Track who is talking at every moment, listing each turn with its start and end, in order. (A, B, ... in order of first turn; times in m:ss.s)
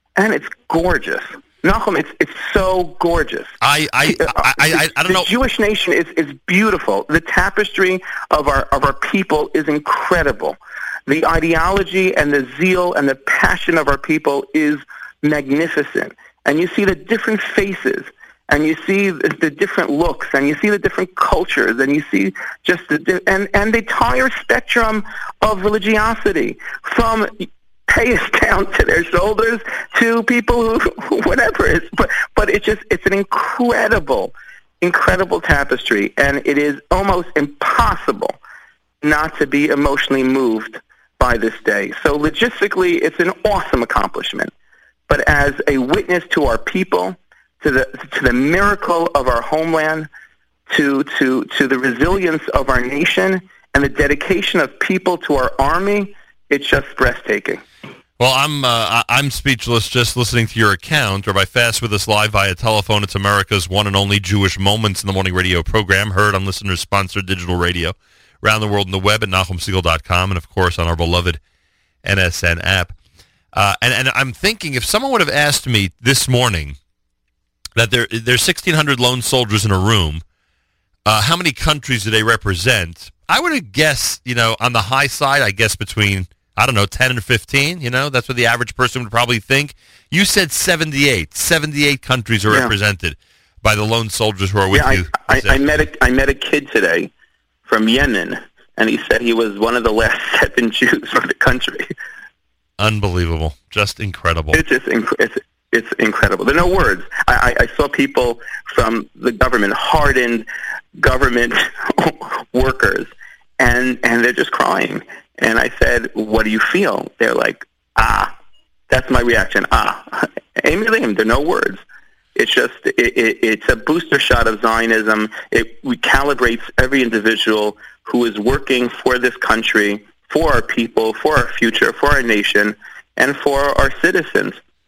0:00.2-0:38.4 A
0:03.6-0:05.3 B
0:39.0-0:44.5 A
0:45.1-0:50.1 A
0:50.7-0:57.6 A
0:58.2-1:11.4 B
1:12.0-1:13.0 B
1:13.5-1:16.8 B
1:17.8-1:20.2 B
1:21.1-1:35.6 B
1:32.5-1:32.7 A
1:34.7-1:37.1 A
1:37.7-1:41.9 A
1:42.8-1:44.6 B
1:44.5-1:58.3 A
1:58.9-2:01.8 A
2:02.4-2:14.6 A